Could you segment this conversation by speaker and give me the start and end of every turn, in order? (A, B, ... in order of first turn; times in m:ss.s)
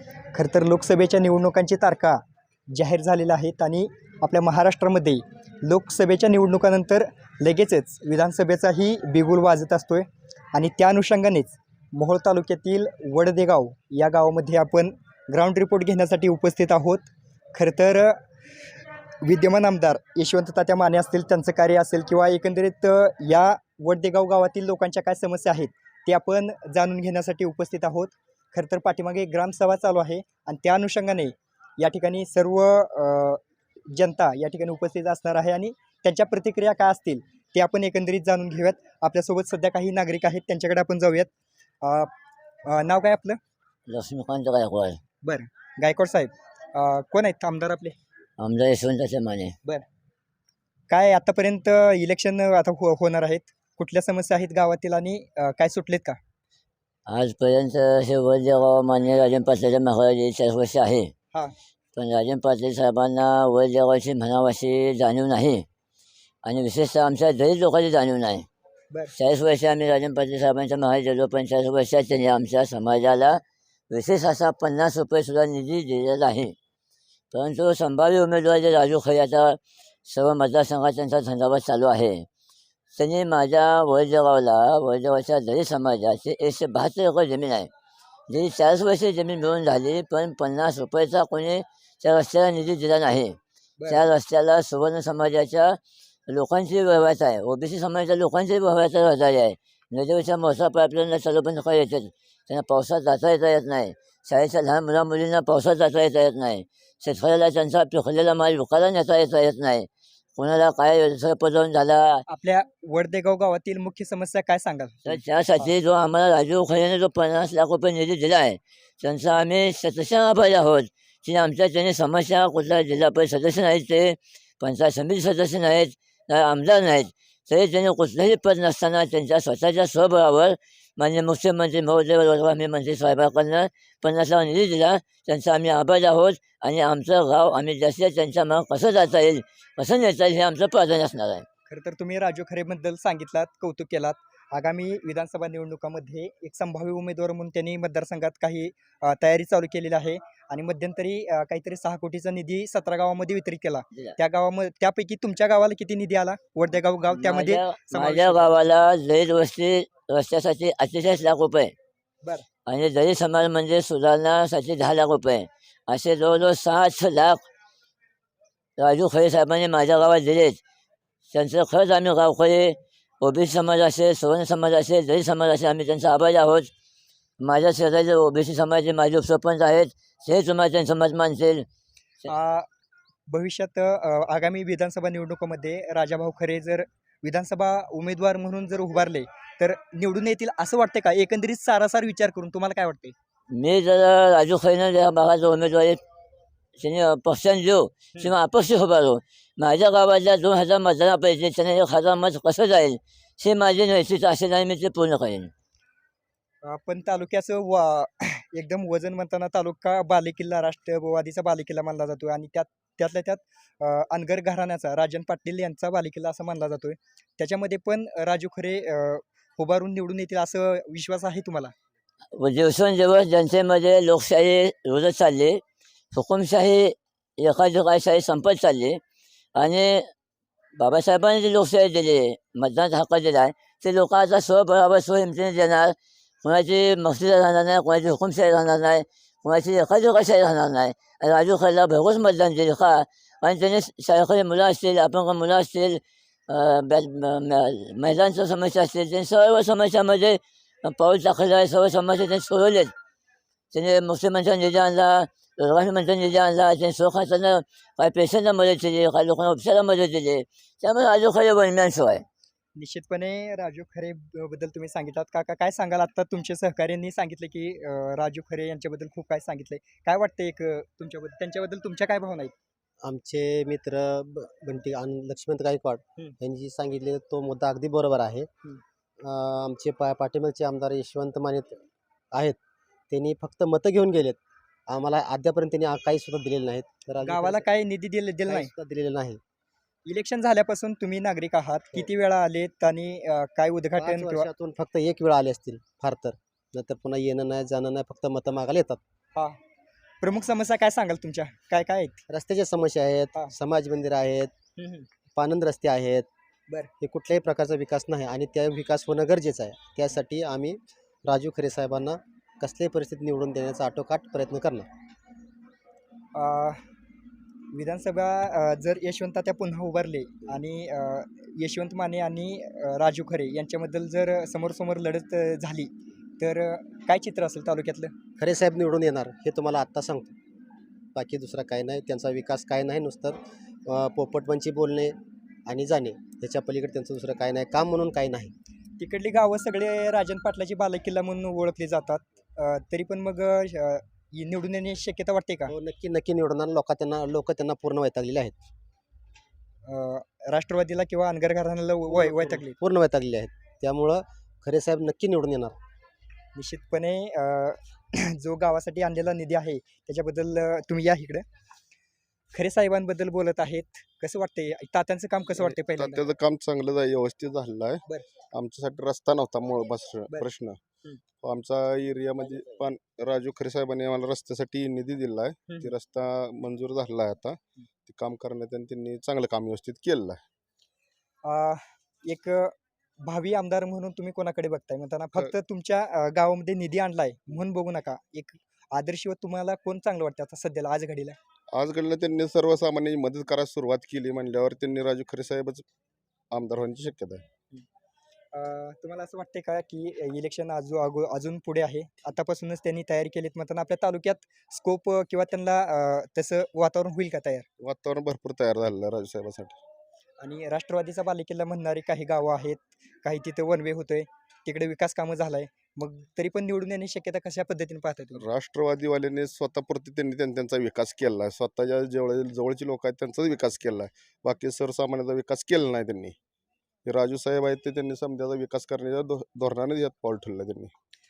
0:00.3-0:18.2 A
0:19.2-0:41.3 A
0:41.8-0:42.1 A
0:42.7-0:43.4 A
0:43.9-0:45.0 B
0:45.2-0:48.0 A
0:48.4-0:49.5 B
0:50.9-0:56.2 A
0:57.1-1:01.1 B
1:02.0-1:05.6 B
1:06.4-1:08.5 B
1:09.2-1:13.4 B
1:13.9-1:16.5 B
1:17.3-1:22.3 B
1:22.9-1:27.7 B
1:28.3-1:35.8 B
1:33.8-1:34.0 A
1:36.3-1:52.2 B
1:52.3-1:55.7 A
1:55.1-2:21.4 B
2:21.7-2:38.5 A
2:37.1-2:41.7 B
2:42.7-2:47.4 B
2:48.8-2:50.6 B
2:51.3-2:56.7 B
2:57.4-3:01.6 B
3:02.3-3:02.7 A
3:03.3-3:13.2 A
3:13.5-3:16.0 B
3:16.8-3:25.5 B
3:26.6-3:41.7 A
3:42.4-3:45.6 B
3:46.1-3:49.0 B
3:49.6-3:50.0 B
3:50.8-4:12.9 B
4:13.7-4:22.2 B
4:22.8-4:32.5 A
4:33.0-4:38.5 C
4:39.2-4:41.8 C
4:42.3-4:42.6 C
4:43.1-4:47.6 C
4:47.2-4:48.7 A
4:48.5-4:49.4 C
4:50.1-4:54.5 A
4:54.0-4:59.0 C
5:00.2-5:02.2 A
5:02.3-5:04.5 C
5:04.8-5:05.1 A
5:05.4-5:06.3 C
5:07.0-5:14.9 C
5:16.4-5:16.8 A
5:17.7-5:28.1 A
5:28.4-5:30.4 C
5:31.2-5:38.5 C
5:39.0-5:45.7 A
5:45.7-5:48.6 C
5:49.9-5:52.8 A
5:52.1-5:55.8 C
5:56.6-6:01.4 A
6:02.5-6:06.2 A
6:05.5-6:10.8 D
6:11.4-6:20.4 D
6:21.4-6:31.4 A
6:31.7-6:35.8 D
6:36.5-6:37.4 D
6:38.5-6:47.7 A
6:47.8-6:49.8 D
6:50.4-6:58.4 A
6:58.4-7:06.4 D
7:07.0-7:10.9 D